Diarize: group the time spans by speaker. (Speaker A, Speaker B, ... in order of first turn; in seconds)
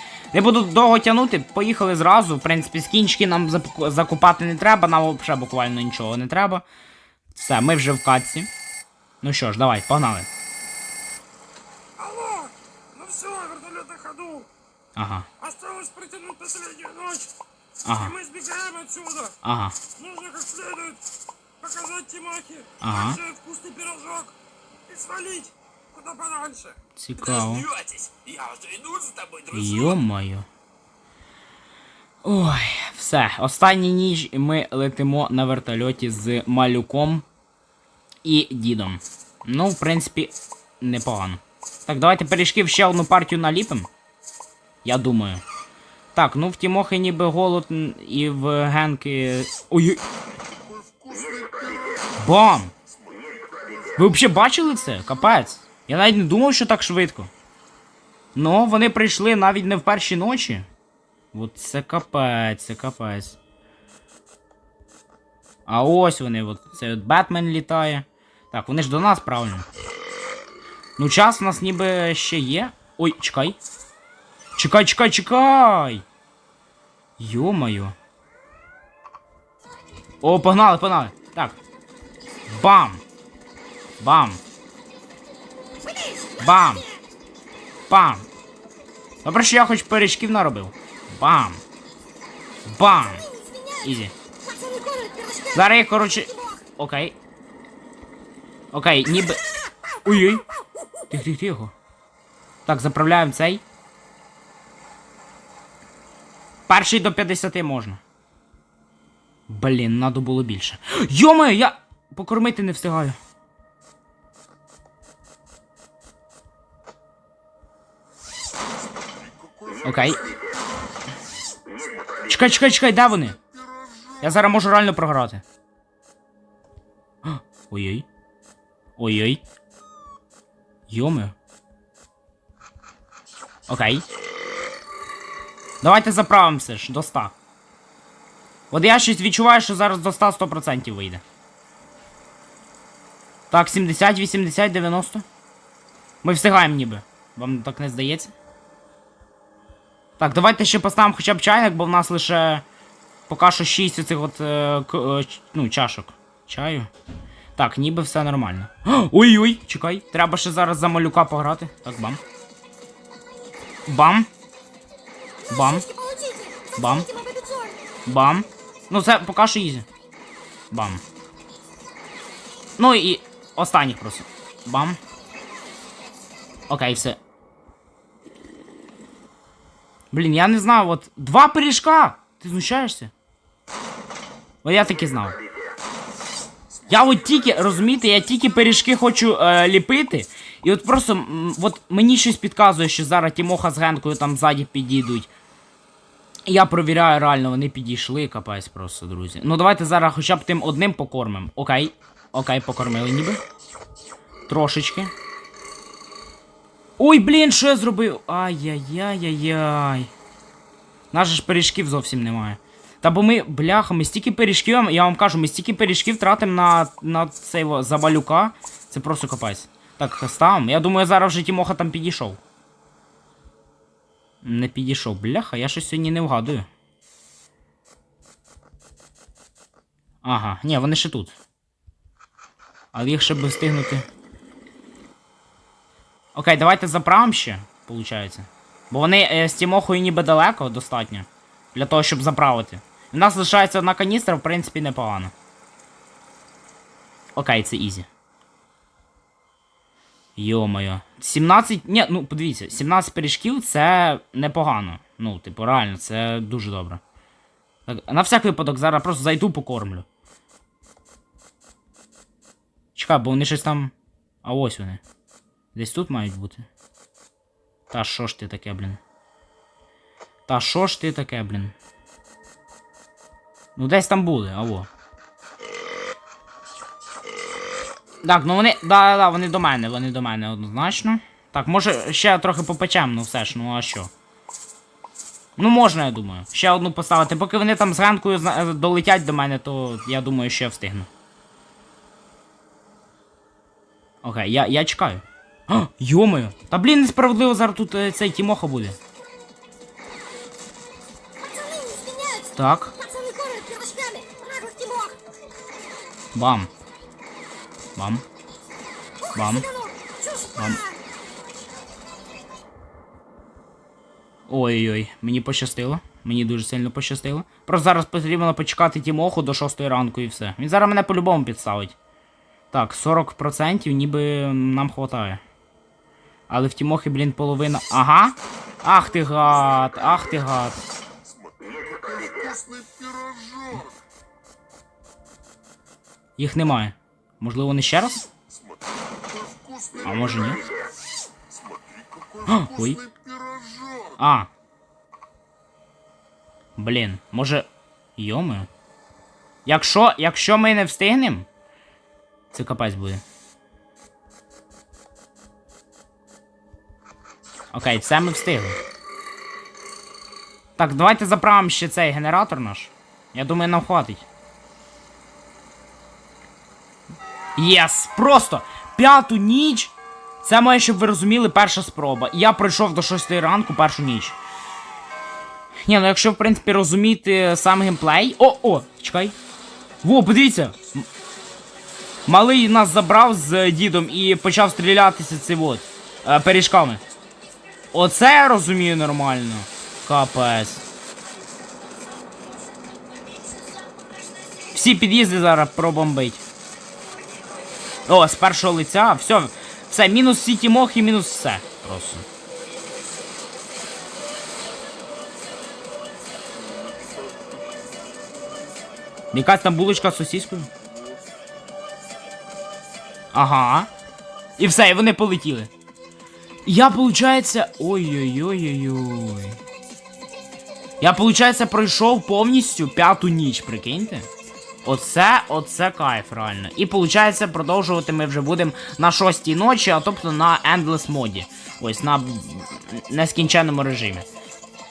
Speaker A: 0.3-6.7, 7.3-8.5, 9.2-10.3, 15.0-15.3, 17.9-18.2, 19.4-19.8, 22.8-23.2, 26.9-27.7, 29.5-30.5, 32.2-37.2, 38.2-43.9, 44.8-45.4, 46.1-50.0, 52.2-52.7, 53.9-57.3, 58.4-60.7, 61.3-63.4, 65.7-69.7, 71.0-73.6, 74.6-76.0, 77.2-78.0, 80.2-81.6, 82.5-83.0, 84.0-84.4, 86.4-86.9, 87.9-88.3, 89.2-91.6, 92.7-94.1, 95.5-97.2, 98.7-99.4, 100.0-100.5, 101.1-101.7, 102.7-103.6, 106.7-108.0, 109.5-113.2, 119.8-120.3, 122.2-123.4, 124.2-125.4, 127.2-128.1, 129.0-129.4, 130.9-131.3, 133.7-134.1, 135.8-137.3, 138.7-141.2, 143.5-145.2, 146.2-148.3, 150.2-152.6, 153.3-156.9, 157.6-162.2, 163.9-164.3, 165.5-165.9, 166.8-167.2, 168.1-169.9, 170.7-171.0, 172.8-175.0, 176.7-177.2, 180.1-183.1, 184.6-185.4, 186.9-195.3, 196.5-203.4, 204.5-205.1, 207.0-210.1, 211.1-222.4, 224.4-226.7, 230.2-231.3, 232.9-234.1, 236.3-245.3, 247.4-248.1, 250.4-257.0, 257.9-260.1, 262.9-265.0, 265.8-266.7, 267.9-269.0, 270.5-271.8, 273.8-274.9, 278.2-284.1, 285.6-291.1, 294.2-299.0, 302.4-303.0, 306.4-306.7, 308.0-308.2, 309.3-309.7, 310.6-310.8, 314.5-322.0, 322.7-325.4, 326.5-330.8, 336.4-338.3, 340.0-340.7, 342.4-343.1, 344.2-344.5, 346.8-348.7, 349.7-351.5, 352.5-353.2, 357.7-358.8, 360.8-364.2, 367.6-374.4, 375.9-379.4, 380.0-381.1, 382.3-387.0, 387.9-390.8, 394.7-396.4, 398.1-402.2, 409.3-410.7, 413.3-413.9, 414.6-415.7, 416.6-419.6, 421.0-424.3, 424.9-434.3
Speaker B: 12.0-14.5, 15.4-17.3, 18.2-19.3, 20.0-21.0, 21.6-24.3, 24.9-26.8, 27.7-29.5, 94.5-95.5, 166.1-167.8, 301.4-302.4, 303.0-305.2